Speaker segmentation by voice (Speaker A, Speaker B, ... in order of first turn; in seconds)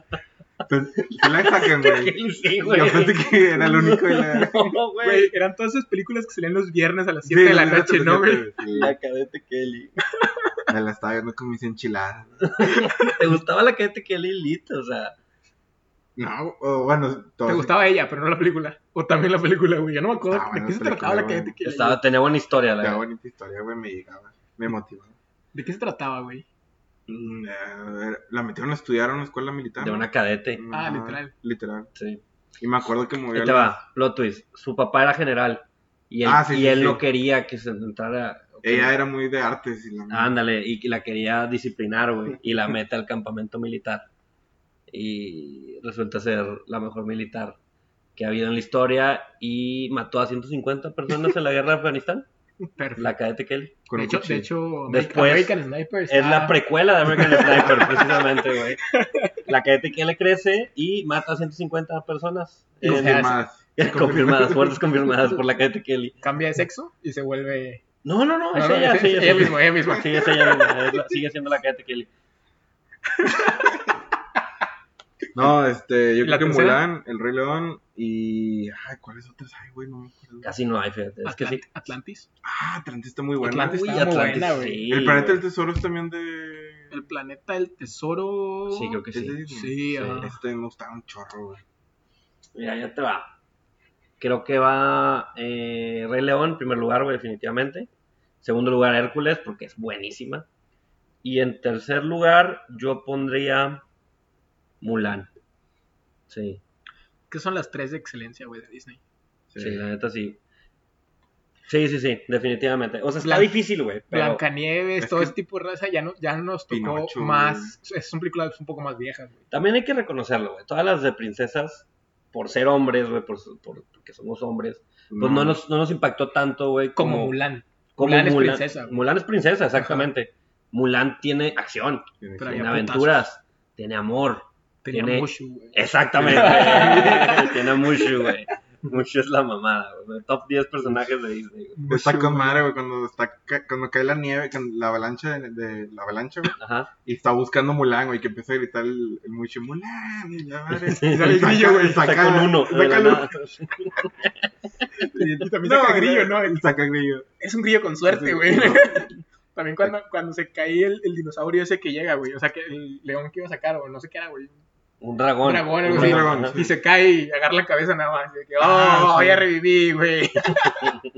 Speaker A: 0.7-4.7, 7.2-8.9, 10.7-12.5, 16.2-17.7, 20.3-21.5, 22.8-25.1, 27.1-31.9, 32.6-33.8, 36.2-37.0, 38.6-40.4, 53.9-54.5, 62.8-64.9, 75.3-80.5, 82.4-87.0, 89.1-91.6, 109.5-109.8, 115.0-115.3, 116.7-117.7, 125.1-125.6, 132.2-132.7, 136.2-137.4, 141.9-153.3, 155.6-157.3, 158.1-159.0, 165.8-166.7, 168.6-169.5
Speaker B: 0.9-5.3, 8.7-10.0, 12.4-15.1, 21.6-23.0, 29.8-30.6, 31.9-32.2, 33.3-38.9, 40.1-44.0, 44.9-47.6, 48.1-52.2, 53.0-53.8, 54.9-55.5, 56.1-58.9, 59.5-66.2, 68.0-72.1, 80.4-81.7, 83.7-85.4, 88.7-89.4, 89.9-90.3, 92.5-93.3, 94.2-97.9, 98.4-100.5, 101.2-103.8, 104.8-105.3, 106.3-106.6, 109.6-110.4, 111.7-114.4, 119.5-127.3, 128.0-141.8, 146.6-146.9, 150.8-154.4, 165.0-166.6
Speaker C: 5.0-8.5, 12.8-13.2, 17.4-22.0, 25.5-26.4, 30.7-31.3, 52.8-53.1, 53.9-56.6, 57.1-58.2, 58.9-59.4, 62.8-63.4, 66.2-67.8, 68.5-70.6, 73.2-73.8, 76.2-76.8, 81.2-82.3, 83.4-84.8, 86.9-90.3, 107.3-109.0, 113.2-113.6, 114.1-119.4, 127.0-129.0, 129.8-130.0, 132.4-133.2, 134.8-137.6, 141.7-142.6, 151.0-152.1, 155.0-156.6, 157.4-164.6, 165.4-171.0